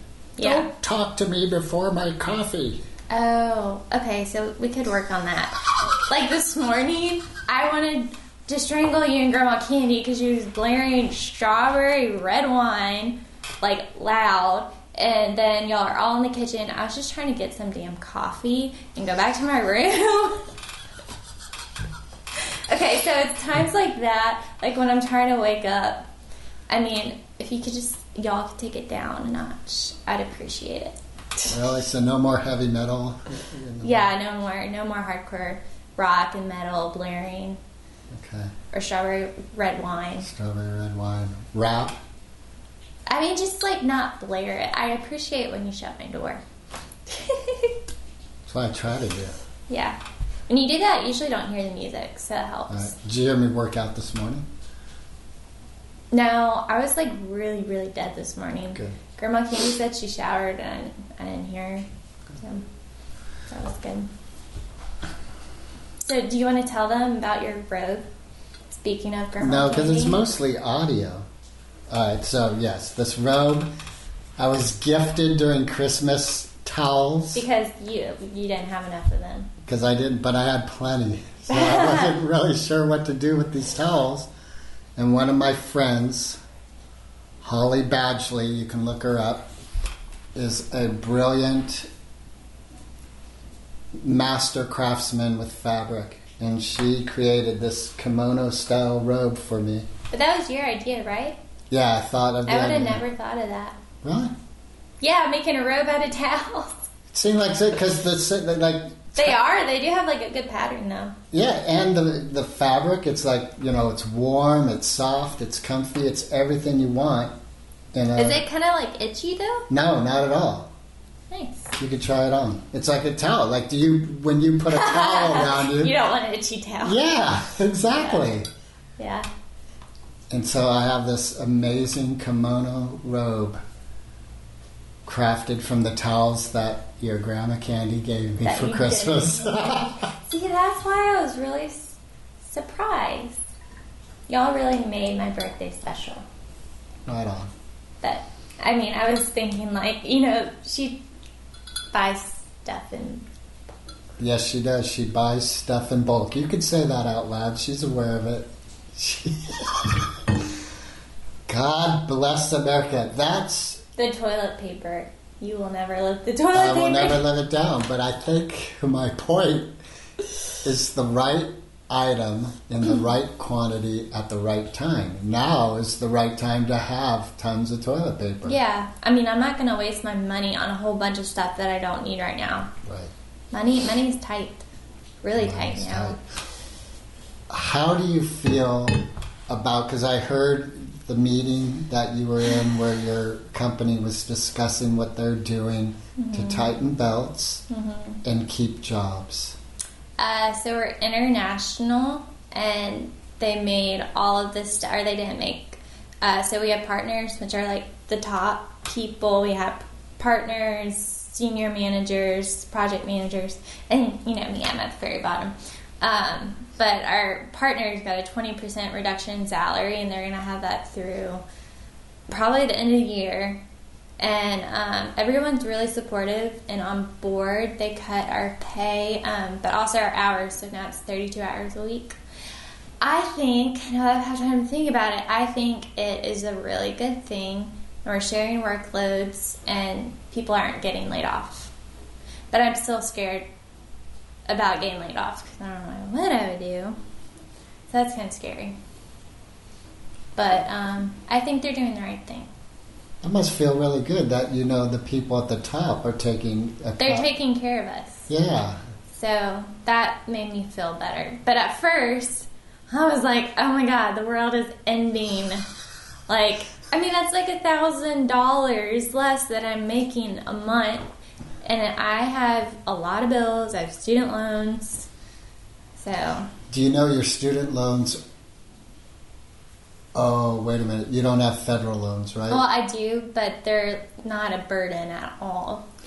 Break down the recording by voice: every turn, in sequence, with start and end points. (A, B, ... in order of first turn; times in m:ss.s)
0:00.4-0:00.7 A
0:00.4-0:02.8 B
0:03.1-0:05.6 A
0:06.1-0:20.4 A
0:22.7-0:26.0 A
0:26.7-0:31.5 A
0:31.5-0:34.1 B
0:33.8-0:37.6 A
0:38.1-0:38.5 B
0:38.7-0:40.3 A
0:40.2-0:42.0 B
0:43.1-0:46.4 A
0:47.1-0:47.8 A
0:48.4-0:49.4 B
0:49.7-0:50.0 A
0:50.5-0:52.9 A
0:52.7-0:54.4 B
0:56.1-1:01.8 A
1:02.4-1:02.6 A
1:03.5-1:04.1 A
1:06.0-1:08.0 A
1:08.7-1:10.2 A
1:09.4-1:11.3 B
1:11.9-1:13.7 B
1:14.4-1:17.4 B
1:17.3-1:19.5 A
1:19.6-1:24.3 B
1:21.5-1:22.2 A
1:25.0-1:26.4 B
1:27.4-1:29.5 B
1:30.3-1:31.9 B
1:34.0-1:39.9 B
1:40.1-1:41.4 A
1:41.7-1:43.0 B
1:42.5-1:43.8 A
1:44.0-1:44.3 B
1:45.0-1:46.8 A
1:47.1-1:49.4 B
1:49.2-1:51.1 A
1:51.3-1:57.4 B
1:57.9-1:58.4 B
1:58.2-1:59.7 A
1:59.7-2:00.7 B
2:01.3-2:01.7 A
2:01.7-2:05.9 B
2:04.7-2:07.0 A
2:06.8-2:08.5 B
2:08.0-2:08.2 A
2:09.0-2:09.3 A
2:10.3-2:13.6 B
2:15.0-2:20.1 B
2:18.4-2:23.4 A
2:24.3-2:26.2 A
2:27.0-2:27.5 B
2:28.0-2:31.0 A
2:31.9-2:33.3 A
2:34.2-2:40.4 B
2:41.5-2:43.8 B
2:44.0-2:47.2 A
2:46.5-2:49.8 B
2:50.6-2:58.6 B
2:58.4-3:02.7 A
3:02.8-3:03.1 B
3:03.5-3:04.6 A
3:05.2-3:06.2 A
3:05.4-3:06.2 B
3:07.5-3:17.6 B
3:16.2-3:16.7 A
3:17.7-3:18.2 A
3:18.2-3:19.6 B
3:20.2-3:41.4 A
3:42.3-3:43.6 A
3:44.2-3:52.2 A
3:53.0-4:01.7 A
4:02.5-4:03.5 A
4:04.5-4:07.0 A
4:07.9-4:08.7 A
4:10.4-4:12.5 A
4:13.2-4:17.3 B
4:17.0-4:18.3 A
4:18.3-4:18.8 B
4:19.1-4:25.6 A
4:26.3-4:31.0 A
4:31.6-4:35.1 A
4:36.0-4:36.5 A
4:36.7-4:38.2 B
4:40.1-4:42.6 B
4:42.5-4:45.8 A